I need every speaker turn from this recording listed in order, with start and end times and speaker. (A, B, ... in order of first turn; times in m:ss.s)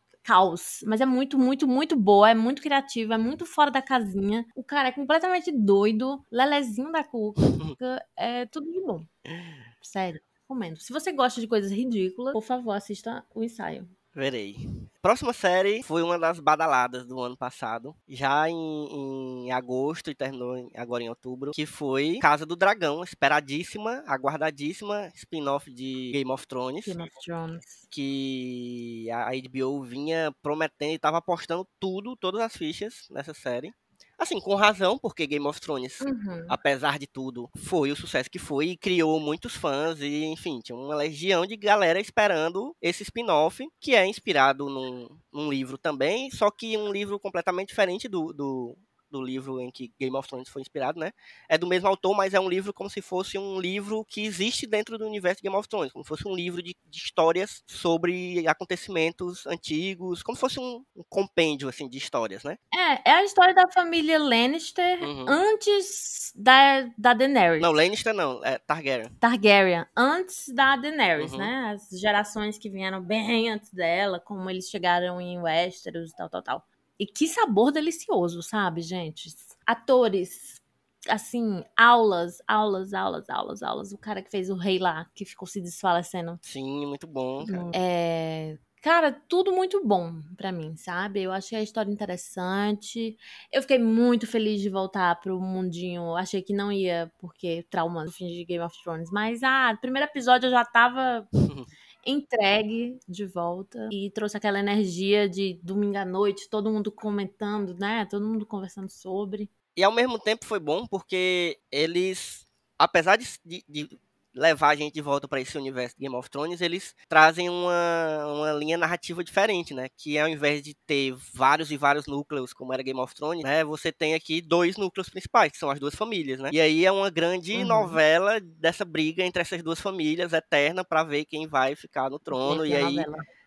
0:00.2-0:09.1 A
0:07.4-0:07.8 B
0:09.8-0:13.9 A
0:14.1-0:27.0 B
0:26.8-0:27.8 A
0:27.9-1:02.6 B
0:36.0-0:36.6 A
1:02.7-1:07.8 A
1:05.0-1:05.4 B
1:07.6-1:09.1 B
1:09.2-1:26.4 A
1:11.2-1:11.5 B
1:26.4-1:27.8 B
1:27.4-1:41.3 A
1:41.4-1:41.7 B
1:42.0-1:49.5 A
1:49.8-2:13.1 B
2:07.5-2:08.0 A
2:12.3-2:13.2 A